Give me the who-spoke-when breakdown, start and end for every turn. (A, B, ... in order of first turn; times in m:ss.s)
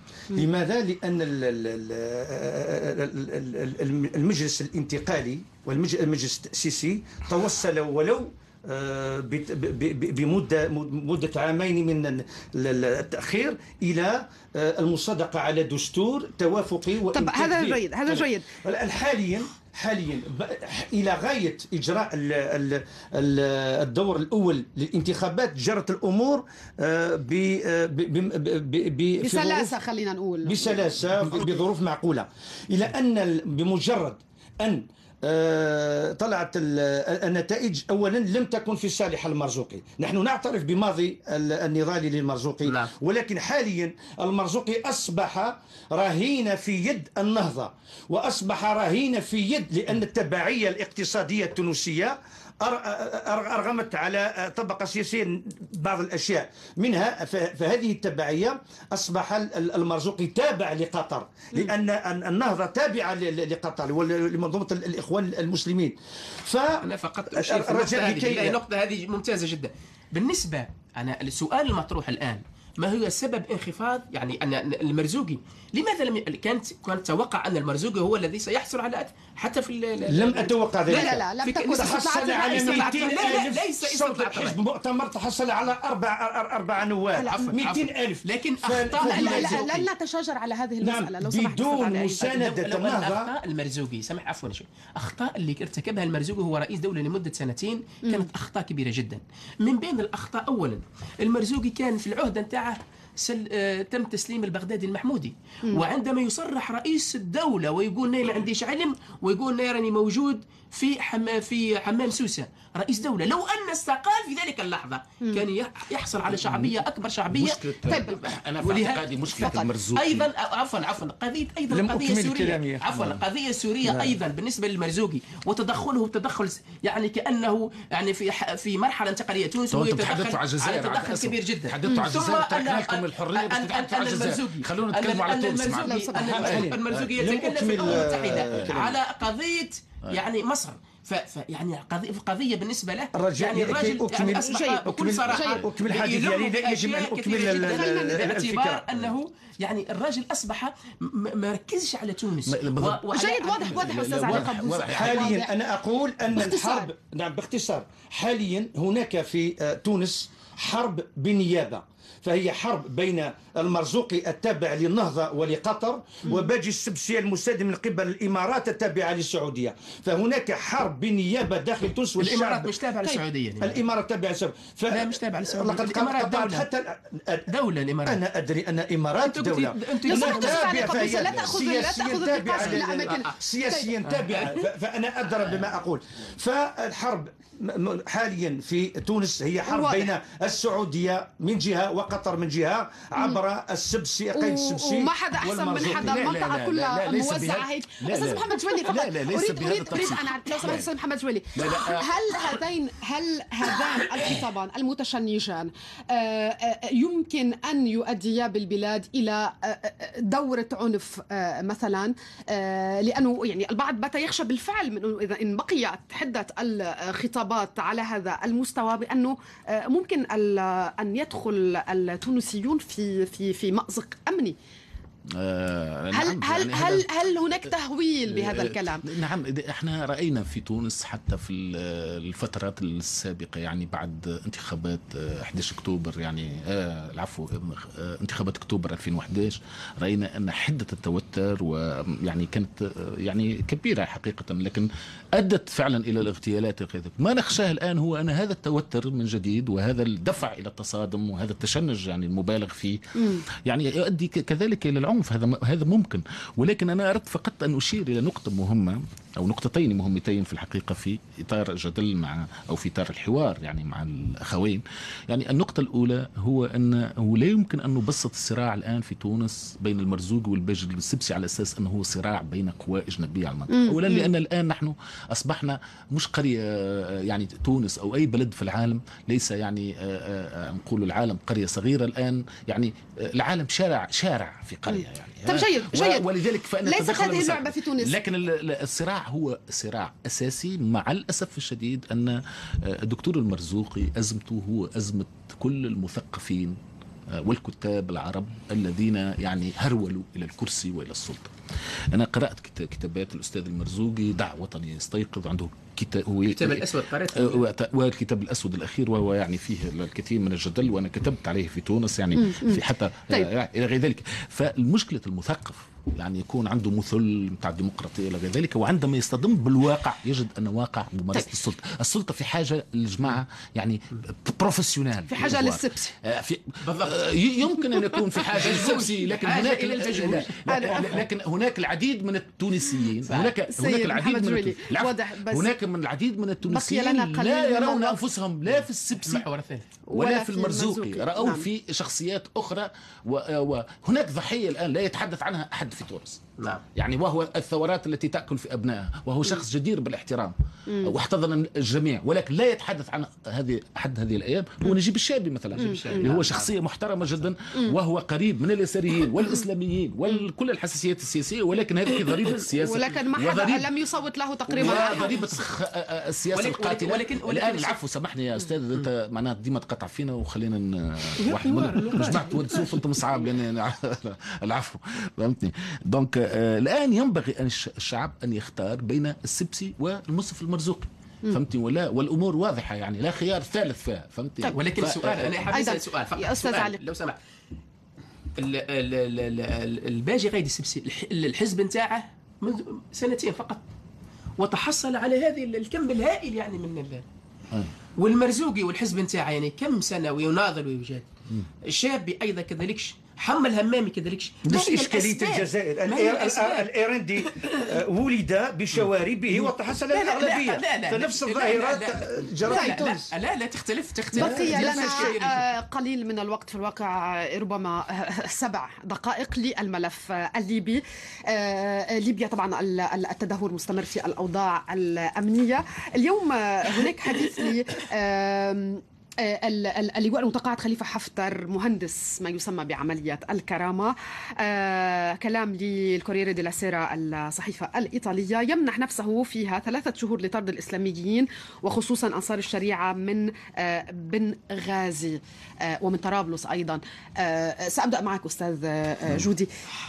0:00.3-0:29.7 A
0:17.1-0:18.5 B
0:29.2-0:30.9 B
0:30.4-1:08.6 A
0:42.7-0:42.9 C
1:06.8-1:24.6 C
1:20.1-1:29.7 A
1:20.9-1:23.4 B
1:27.1-1:27.5 B
1:27.2-1:29.9 C
1:29.0-1:32.5 B
1:30.8-1:33.3 A
1:32.3-2:34.6 C
1:56.3-1:56.8 D
1:57.3-2:00.3 D
1:59.4-1:59.7 B
2:01.7-2:02.8 A
2:02.9-2:03.2 D
2:03.8-2:04.2 A
2:09.7-2:18.9 D
2:15.8-2:16.6 B
2:16.2-2:19.0 A
2:23.2-2:28.8 A
2:24.4-2:25.6 B
2:27.6-2:28.2 B
2:32.5-2:33.1 D
2:33.1-2:35.5 B
2:33.6-2:35.3 D
2:34.9-2:57.5 A
2:36.3-2:36.9 B
2:52.2-2:53.8 C
2:54.9-2:56.7 C
2:57.5-2:58.2 C
2:58.0-3:16.3 A
2:59.2-3:01.2 C
3:00.1-3:04.0 B
3:01.2-3:01.6 D
3:04.0-3:04.6 C
3:09.7-3:10.1 B
3:14.4-3:44.6 B
3:15.7-3:20.9 D
3:21.6-3:22.6 D
3:45.3-3:47.2 D
3:46.1-3:49.1 B
3:48.3-4:56.8 D
4:33.7-4:34.3 B
4:44.9-4:46.3 B
4:46.8-4:48.2 B
4:57.4-5:01.5 D
5:02.1-5:39.5 D
5:06.5-5:07.6 C
5:12.4-5:13.5 B
5:25.3-5:26.2 B
5:26.8-5:27.3 C
5:27.8-5:28.2 B
5:28.5-5:31.2 C
5:30.7-5:31.1 B
5:33.3-5:33.6 C
5:33.7-5:35.7 B
5:36.6-5:38.2 B
5:38.7-5:39.9 C
5:40.1-5:41.7 B
5:40.1-5:46.4 D
5:46.6-5:46.8 C
5:47.0-6:03.9 D
5:55.7-5:56.7 C
5:55.8-5:56.4 B
6:02.8-6:05.3 B
6:04.7-6:25.7 D
6:04.8-6:05.4 C
6:06.5-6:08.0 C
6:11.4-6:13.2 C
6:24.7-6:27.4 C
6:25.7-6:27.0 B
6:28.6-6:33.8 C
6:34.6-6:37.2 C
6:38.2-6:41.3 C
6:41.9-6:47.9 C
6:44.6-6:53.3 A
6:49.5-6:55.6 C
6:52.7-6:53.0 B
6:54.3-6:55.3 A
6:54.4-7:29.7 B